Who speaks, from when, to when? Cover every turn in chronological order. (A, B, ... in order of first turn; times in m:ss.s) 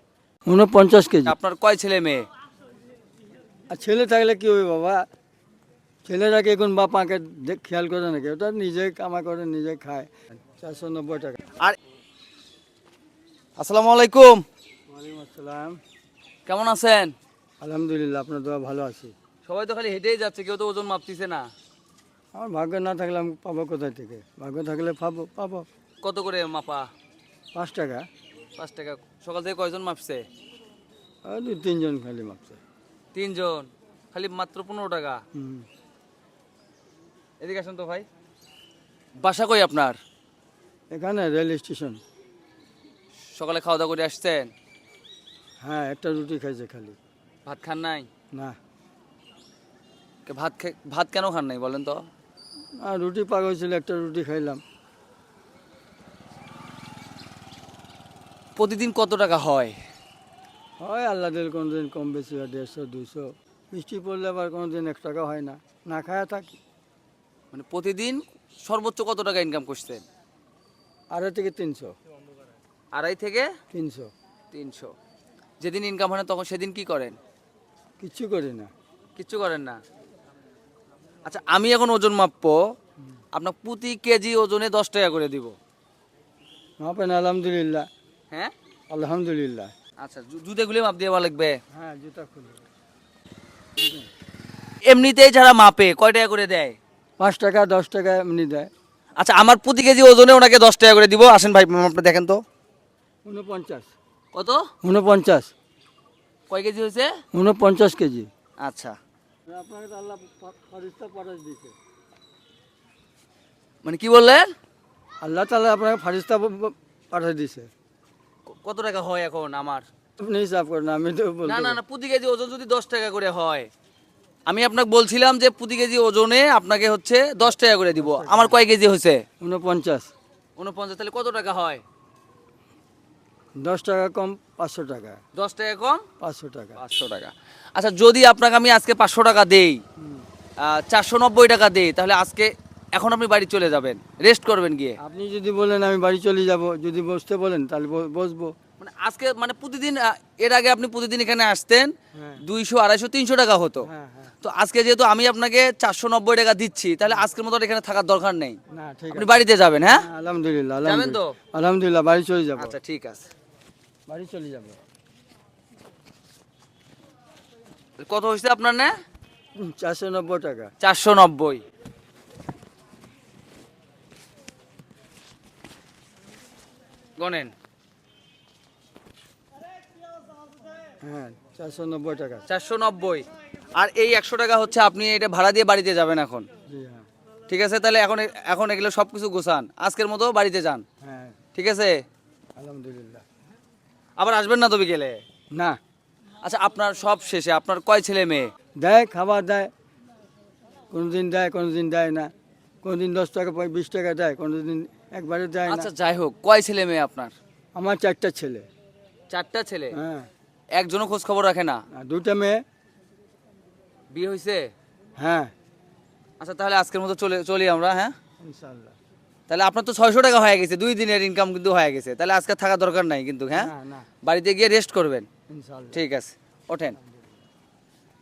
0:00.5-0:01.4 A
0:01.3-0:02.2 B
0:03.7-0:05.0 A
0:06.0-0:11.4 A
0:13.6-0:14.4 B
0:14.9-0:15.8 A
0:16.5-0:17.1 B
0:17.6-0:19.1 A
0:19.4-0:21.5 B
0:22.4-0:25.7 A
0:26.0-0:26.9 B
0:27.6-0:28.1 A
0:28.6-0:30.2 B
0:31.3-0:32.6 A
0:33.1-0:35.2 B
0:35.4-0:35.7 A
0:37.4-0:38.1 B
0:39.2-0:40.0 B
0:40.9-0:42.0 A
0:43.3-0:44.5 B
0:45.6-0:47.0 A
0:47.5-0:48.1 B
0:50.3-0:52.0 B
0:52.8-0:54.6 A
0:58.6-0:59.8 B
1:00.8-1:06.6 A
1:07.5-1:10.0 B
1:11.1-1:12.0 A
1:12.9-1:13.5 B
1:13.7-1:14.1 A
1:14.5-1:14.9 B
1:15.6-1:17.2 B
1:18.0-1:18.7 A
1:19.2-1:19.8 B
1:21.3-1:22.6 B
1:23.4-1:25.5 B
1:26.8-1:27.9 A
1:28.9-1:29.7 A
1:30.0-1:31.6 B
1:31.7-1:32.6 A
1:33.8-1:34.1 A
1:34.9-1:36.8 B
1:37.2-1:38.7 A
1:39.2-1:42.4 B
1:43.3-1:43.9 A
1:44.3-1:44.7 B
1:44.8-1:45.5 A
1:46.5-1:47.1 B
1:47.3-1:48.3 A
1:48.6-1:49.0 B
1:49.5-1:51.8 A
1:53.8-1:54.5 B
1:55.2-1:57.7 A
1:58.5-1:59.9 B
2:00.2-2:01.8 A
2:01.5-2:03.7 B
2:04.5-2:09.2 B
2:07.9-2:08.6 A
2:09.4-2:10.1 A
2:10.6-2:11.8 B
2:13.6-2:15.2 A
2:15.4-2:16.0 B
2:16.2-2:16.8 A
2:16.8-2:19.8 B
2:20.0-2:20.3 A
2:20.6-2:25.0 B
2:25.0-2:28.5 A
2:28.8-2:33.9 B
2:32.1-2:32.4 A
2:33.8-2:34.3 A
2:34.4-2:38.6 B
2:38.7-2:39.4 A
2:39.1-2:40.1 B
2:39.9-2:42.8 A
2:40.8-2:41.4 B
2:42.6-2:43.3 B
2:44.1-2:44.8 A
2:48.1-2:48.9 B
2:49.6-2:50.7 A
2:50.8-2:51.6 B
2:57.2-2:57.5 B
3:01.0-3:02.5 A
3:02.5-3:03.2 B
3:03.8-3:06.5 B
3:06.7-3:07.1 A
3:07.5-3:10.8 B
3:11.0-3:11.4 A
3:11.5-3:12.0 B
3:12.6-3:13.2 A
3:14.2-3:15.2 B
3:16.4-3:18.5 B
3:18.8-3:19.7 A
3:20.9-3:22.3 A
3:22.8-3:25.9 A
3:25.7-3:27.3 B
3:27.8-3:28.7 A
3:29.3-3:30.0 B
3:29.9-3:30.3 A
3:30.8-3:31.8 B
3:31.9-3:32.6 A
3:34.1-3:34.7 B
3:35.2-3:35.5 A
3:36.4-3:38.1 B
3:38.4-3:39.0 A
3:39.5-3:43.7 B
3:43.6-3:44.1 A
3:44.2-3:45.3 B
3:45.5-3:46.0 A
3:45.9-3:47.0 B
3:47.0-3:47.4 A